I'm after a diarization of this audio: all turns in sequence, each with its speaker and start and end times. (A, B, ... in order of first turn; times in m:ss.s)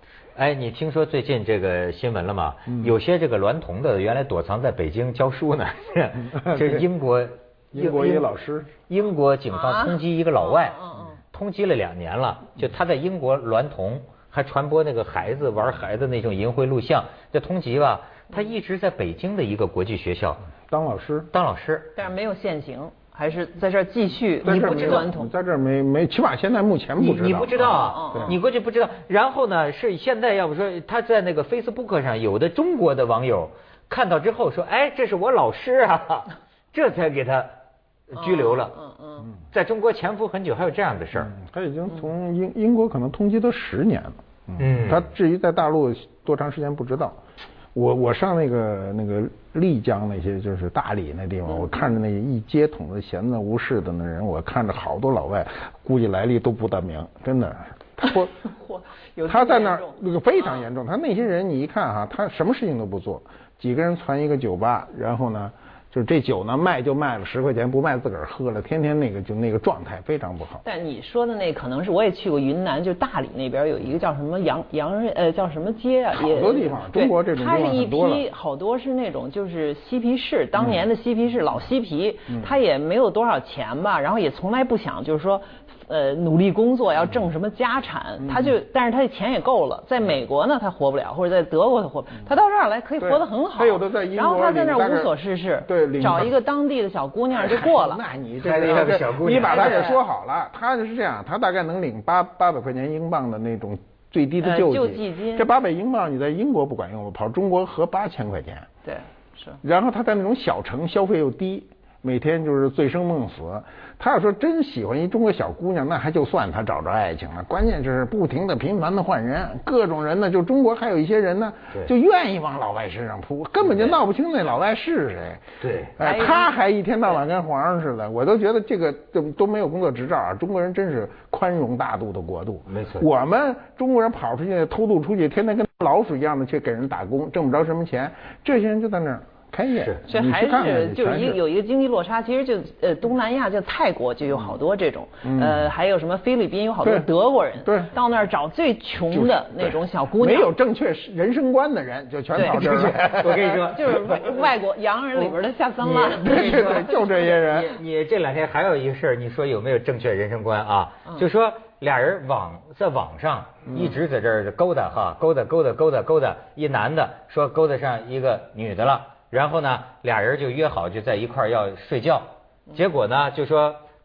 0:00.4-0:08.3 A
0:06.4-0:06.8 B
0:07.7-0:08.7 B
0:08.9-0:10.8 A
0:09.5-0:11.2 C
0:11.3-0:20.4 A
0:20.7-0:21.3 B
0:21.3-0:21.9 A
0:22.0-0:25.3 C
0:24.4-0:25.1 A
0:24.4-0:28.4 B
0:27.0-0:37.5 A
0:27.9-0:28.4 C
0:38.1-0:38.7 A
0:38.2-0:39.3 C
0:39.5-0:41.3 A
0:41.1-0:47.2 B
0:44.6-0:45.1 A
0:47.7-0:58.3 B
0:58.5-1:00.0 C
0:59.2-1:10.6 B
1:10.6-1:38.0 C
1:16.1-1:18.2 B
1:28.2-1:28.5 B
1:33.0-1:35.1 B
1:35.6-1:36.3 B
1:37.3-1:48.7 B
1:38.4-1:40.0 A
1:39.5-1:40.0 C
1:44.4-1:45.5 C
1:48.8-1:49.6 C
1:49.6-2:05.4 B
2:03.6-2:04.0 A
2:05.6-2:05.9 A
2:06.0-2:21.4 B
2:06.0-2:06.5 C
2:12.7-2:13.1 A
2:19.7-2:20.0 A
2:20.1-2:30.5 C
2:25.2-2:25.7 B
2:26.8-2:27.1 B
2:27.6-2:27.9 B
2:29.1-2:33.7 B
2:32.3-2:32.6 C
2:32.4-2:34.5 A
2:33.4-2:37.7 C
2:35.8-2:37.8 B
2:36.3-2:36.8 A
2:37.6-2:53.8 A
2:43.7-2:44.0 B